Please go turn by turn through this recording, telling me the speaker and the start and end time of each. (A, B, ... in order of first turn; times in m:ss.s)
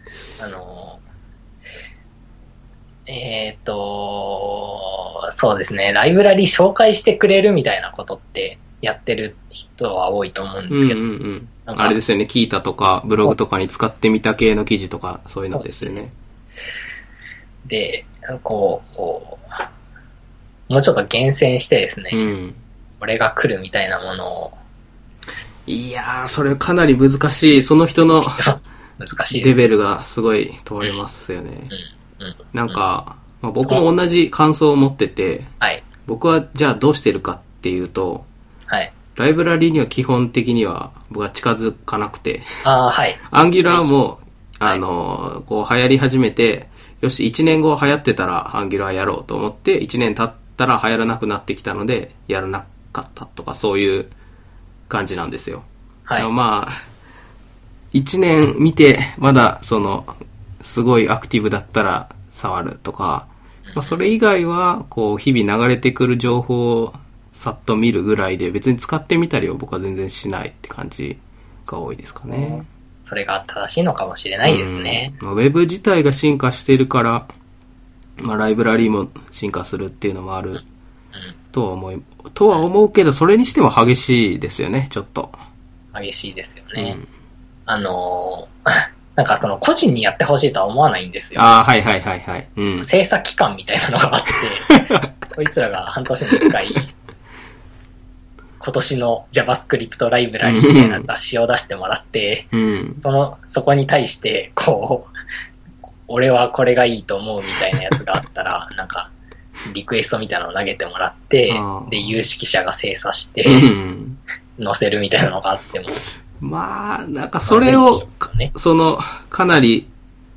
0:00.4-0:01.0 A
0:03.1-0:11.0 A
0:10.7-0:16.2 B
0:11.7-0:12.0 A
0:15.6-0:15.9 A
0:17.7-0:19.6 A
0:20.7-0:22.3 A
0:22.1-0:22.6 B
0:23.0-0:24.6 A
0:25.7-0:28.4 B
0:28.2-0:29.6 A
0:29.3-0:31.7 B
0:31.7-0:32.8 A
0:32.5-0:35.5 B
0:36.1-0:38.3 B
0:39.2-0:42.4 B
0:42.6-0:43.2 A
0:43.3-0:54.1 B
0:54.9-0:55.7 B
0:56.1-0:56.3 A
0:56.2-0:56.8 B
0:57.9-1:12.7 B
1:03.7-1:04.0 A
1:12.3-1:15.2 A
1:14.4-1:17.3 B
1:18.2-1:20.6 B
1:21.5-1:25.4 B
1:25.9-1:27.0 A
1:26.8-1:27.1 B
1:27.7-1:31.6 A
1:31.4-1:32.9 B
1:32.8-1:36.9 A
1:38.6-1:42.5 A
1:40.4-1:41.1 B
1:42.5-1:43.0 B
1:43.0-1:45.1 A
1:46.1-1:49.1 A
1:49.6-1:53.7 A
1:51.5-1:52.2 B
1:53.4-1:54.2 B
1:54.6-1:56.0 A
1:56.4-1:59.9 B
1:57.5-1:58.5 A